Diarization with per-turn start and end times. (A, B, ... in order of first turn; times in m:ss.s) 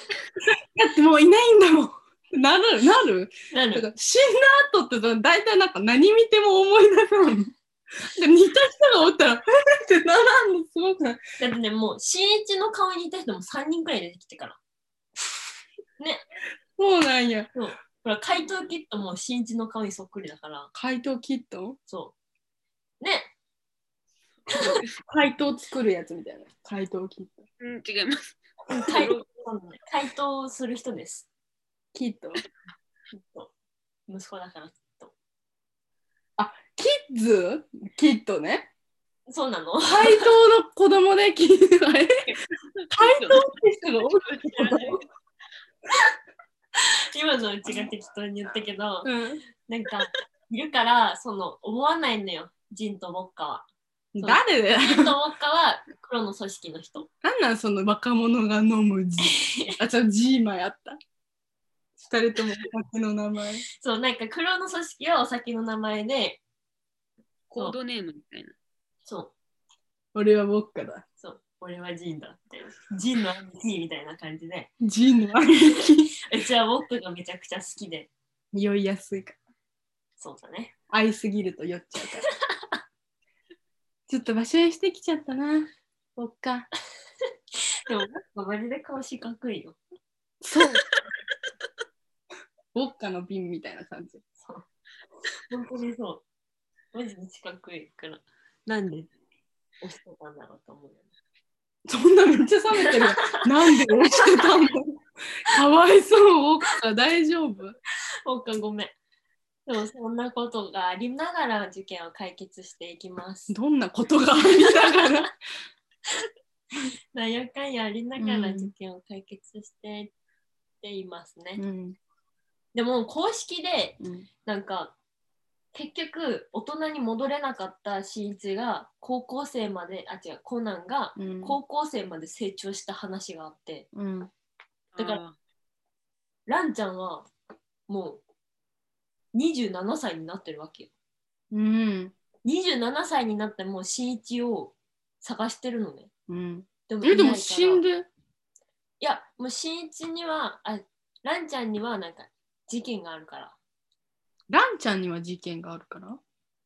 0:00.4-0:11.2 A
0:03.5-0:03.9 B
0:11.4-0:14.6 B
0:16.8-0:17.5 A
0:17.5-0:20.7 B
0:20.7-0:21.8 A
0:21.9-0:22.2 B
0:23.0-0:23.3 B
0:24.5-0:24.8 B
0:24.5-0:24.9 C
0:25.1-0:27.5 A
0:27.6-0:29.2 C
0:28.7-0:31.3 B
0:31.9-0:32.4 A
0:33.1-0:33.5 B
0:34.1-0:35.1 B
0:36.4-0:38.7 A
0:39.3-0:40.3 B
0:39.8-0:42.3 A
0:42.8-0:43.5 C
0:42.9-0:45.0 A
0:44.2-0:45.0 C
0:46.8-0:49.1 B
0:49.0-0:49.4 A
0:49.7-0:53.7 B
0:54.2-0:55.2 A
0:54.2-0:57.1 B
0:57.2-1:01.0 A
0:59.2-0:59.8 B
1:02.0-1:03.6 A
1:03.8-1:06.4 B
1:07.5-1:08.6 C
1:09.1-1:09.3 B
1:10.1-1:11.0 A
1:11.2-1:14.7 B
1:14.8-1:16.2 A
1:16.2-1:18.1 B
1:18.5-1:19.4 A
1:20.2-1:20.7 B
1:20.9-1:22.2 A
1:24.1-1:26.7 A
1:27.6-1:29.8 B
1:30.4-1:30.8 A
1:32.7-1:34.2 A
1:34.4-1:34.7 B
1:35.5-1:36.2 B
1:36.9-1:39.1 B
1:39.8-1:41.1 B
1:41.9-1:47.8 A
1:42.8-1:43.5 B
1:44.1-1:44.6 B
1:48.3-1:48.9 B
1:49.7-1:53.6 B
1:53.5-1:55.3 A
1:54.4-1:55.3 B
1:57.1-2:00.1 B
1:58.2-1:58.7 A
2:00.8-2:01.6 B
2:01.6-2:02.0 A
2:02.7-2:05.0 B
2:04.0-2:04.3 A
2:05.7-2:13.9 B
2:11.2-2:11.6 A
2:13.9-2:14.3 A
2:14.9-2:15.4 C
2:16.5-2:17.3 B
2:17.9-2:18.2 B
2:19.3-2:20.9 B
2:21.5-2:22.1 A
2:22.4-2:26.1 B
2:26.3-2:28.1 A
2:26.9-2:27.8 B
2:29.0-2:33.6 B
2:34.5-2:36.2 A